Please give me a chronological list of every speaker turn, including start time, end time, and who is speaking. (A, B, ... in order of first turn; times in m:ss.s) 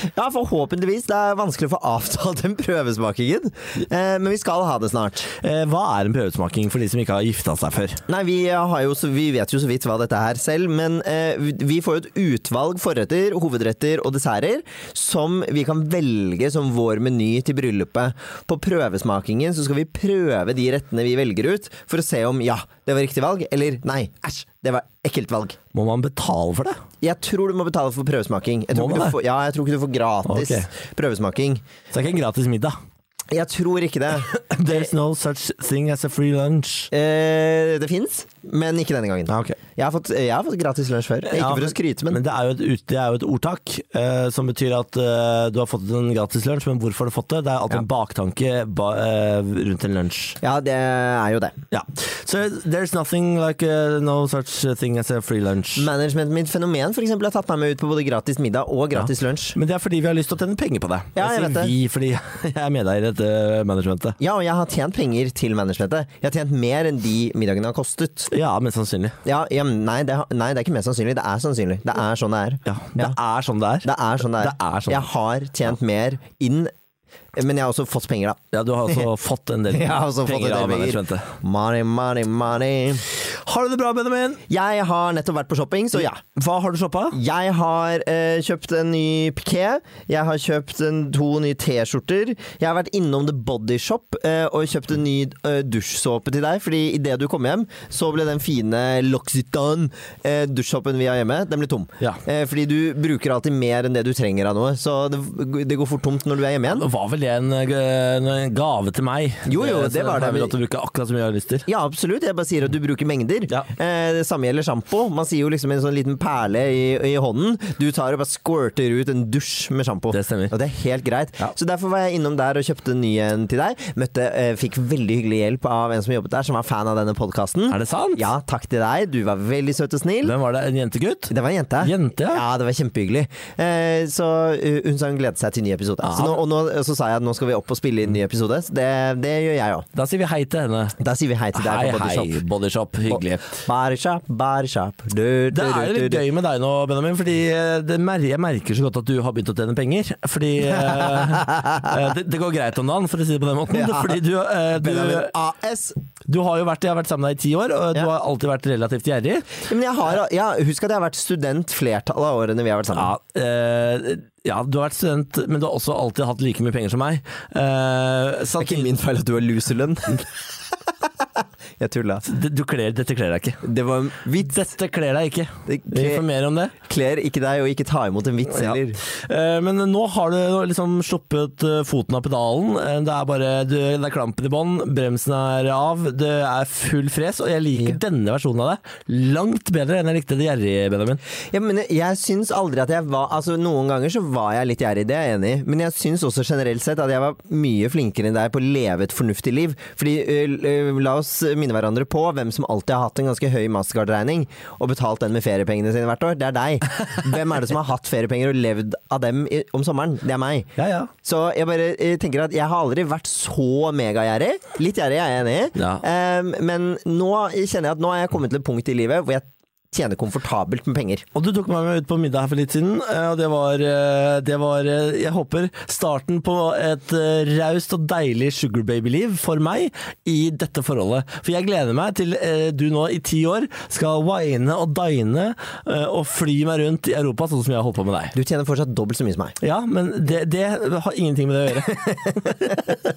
0:00.1-0:05.3 A
0:05.4-0:08.0 B
0:08.1-0:25.6 A
0:25.7-0:26.8 B
0:27.0-0:31.7 A
0:28.7-0:29.2 B
0:30.2-0:30.7 B
0:31.9-0:32.8 B
0:33.3-0:34.9 A
0:34.3-0:36.9 B
0:36.9-0:42.2 A
0:39.3-0:39.6 B
0:41.3-0:50.4 B
0:50.4-0:51.6 A
0:51.7-0:55.9 B
0:55.8-0:59.6 A
0:59.0-1:04.2 B
1:01.2-1:01.7 A
1:04.2-1:08.3 A
1:08.3-1:09.2 B
1:09.2-1:13.2 A
1:12.7-1:15.1 B
1:13.8-1:16.7 A
1:17.3-1:19.0 A
1:18.5-1:21.3 B
1:19.7-1:23.0 A
1:23.1-1:24.4 B
1:24.5-1:26.2 A
1:26.0-1:27.2 B
1:27.1-1:46.9 A
1:46.7-1:51.7 B
1:49.4-1:50.6 A
1:51.7-2:10.3 A
2:00.1-2:00.5 B
2:07.7-2:08.3 B
2:10.2-2:12.4 B
2:11.3-2:19.8 A
2:16.0-2:16.4 B
2:19.9-2:21.0 B
2:21.0-2:22.4 A
2:21.5-2:23.6 B
2:23.1-2:26.2 A
2:25.5-2:35.3 B
2:31.3-2:31.8 A
2:33.7-2:34.2 A
2:34.8-2:36.0 A
2:36.2-2:39.6 B
2:39.6-2:43.1 A
2:42.9-2:48.9 B
2:48.6-2:50.2 A
2:51.8-2:52.2 A
2:52.2-2:53.6 B
2:53.6-2:54.6 A
2:54.4-2:56.7 B
2:55.7-2:56.2 A
2:56.8-2:59.0 A
2:58.5-3:11.2 B
3:11.5-3:41.2 A
3:30.8-3:31.1 B
3:35.8-3:36.0 B
3:41.3-3:58.3 B
3:58.3-3:59.6 A
3:59.6-4:02.8 B
4:01.9-4:02.6 A